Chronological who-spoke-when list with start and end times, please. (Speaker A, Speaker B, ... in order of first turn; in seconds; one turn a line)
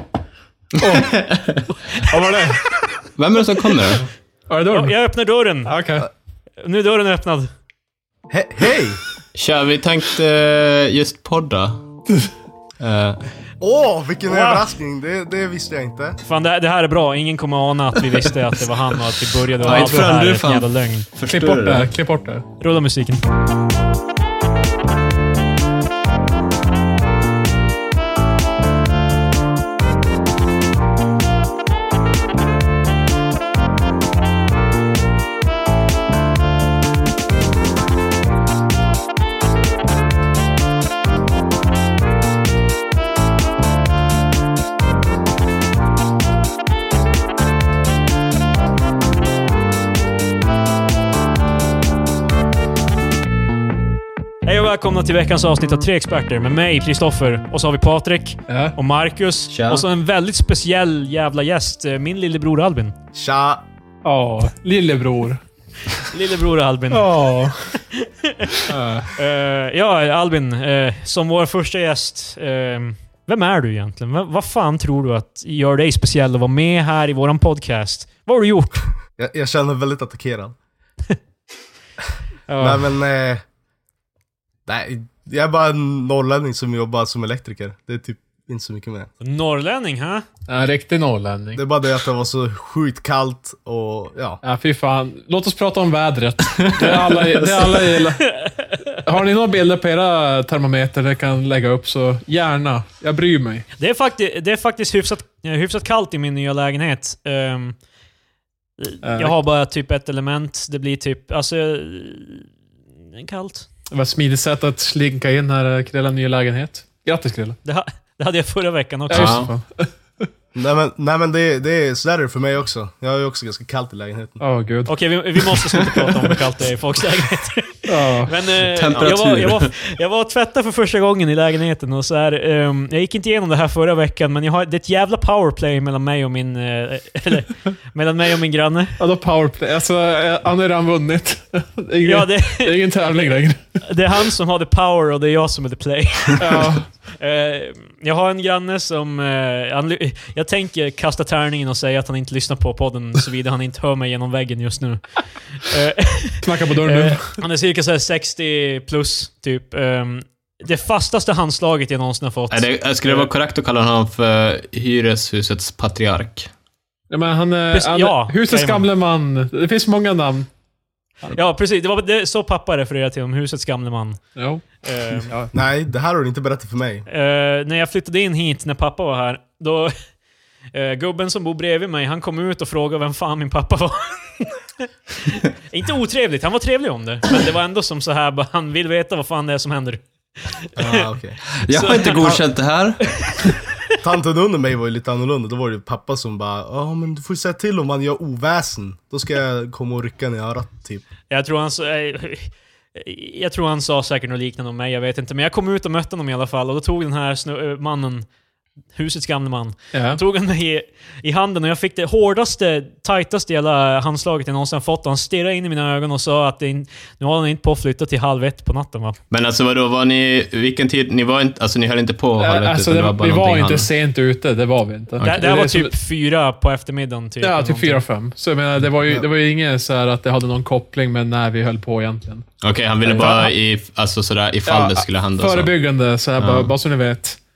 Speaker A: 0.8-1.2
Speaker B: 0.8-1.8
Speaker A: 2.0-2.6
Speaker B: 3.1-4.1
Speaker A: 4.5-5.0
Speaker C: 4.7-5.7
Speaker A: 5.7-6.1
Speaker C: 6.6-7.5
Speaker D: 8.3-9.0
Speaker B: 9.3-11.8
Speaker B: 12.8-13.2
Speaker D: 13.6-16.2
Speaker C: 14.2-14.7
Speaker C: 16.2-21.1
Speaker B: 19.6-21.9
Speaker A: 21.3-22.4
Speaker C: 22.6-23.2
Speaker C: 54.4-62.9
Speaker A: 58.5-58.7
Speaker B: 59.5-59.8
Speaker D: 63.1-63.6
Speaker A: 64.0-65.4
Speaker C: 66.1-67.1
Speaker A: 66.9-67.7
Speaker C: 67.9-78.9
Speaker A: 68.7-69.1
Speaker D: 79.2-80.5
Speaker C: 82.5-82.8
Speaker D: 82.6-83.4
Speaker D: 84.7-89.1
Speaker C: 89.2-90.2
Speaker A: 90.5-91.6
Speaker D: 91.5-94.4
Speaker A: 94.4-98.3
Speaker B: 96.5-97.9
Speaker C: 98.3-98.7
Speaker A: 99.0-103.6
Speaker C: 103.8-107.8
Speaker C: 108.8-112.5
Speaker A: 109.0-109.3
Speaker C: 113.1-113.7
Speaker A: 113.9-117.6
Speaker C: 117.6-119.4
Speaker A: 119.1-120.3
Speaker B: 119.1-119.5
Speaker D: 120.5-124.4
Speaker A: 124.4-124.9
Speaker C: 124.9-139.0
Speaker A: 125.7-126.0
Speaker A: 127.8-128.3
Speaker B: 128.7-129.7
Speaker A: 139.0-143.6
Speaker C: 142.0-143.3
Speaker C: 143.8-163.3
Speaker A: 146.4-146.9
Speaker A: 156.4-157.4
Speaker B: 162.5-166.5
Speaker A: 167.1-170.5
Speaker C: 167.7-168.8
Speaker C: 171.3-174.2
Speaker A: 174.3-175.5
Speaker C: 174.8-175.3
Speaker D: 175.5-177.1
Speaker C: 177.1-179.9
Speaker C: 180.7-191.1
Speaker D: 190.8-191.4
Speaker B: 191.6-193.1
Speaker C: 191.7-192.4
Speaker C: 193.1-193.5
Speaker D: 194.0-201.0
Speaker C: 201.3-208.2
Speaker C: 208.9-219.2
Speaker A: 209.9-210.2
Speaker B: 219.3-223.9
Speaker A: 222.4-225.9
Speaker C: 225.2-228.0
Speaker A: 227.4-232.4
Speaker B: 232.6-235.7
Speaker A: 233.0-233.5
Speaker A: 234.7-237.4
Speaker B: 236.4-236.7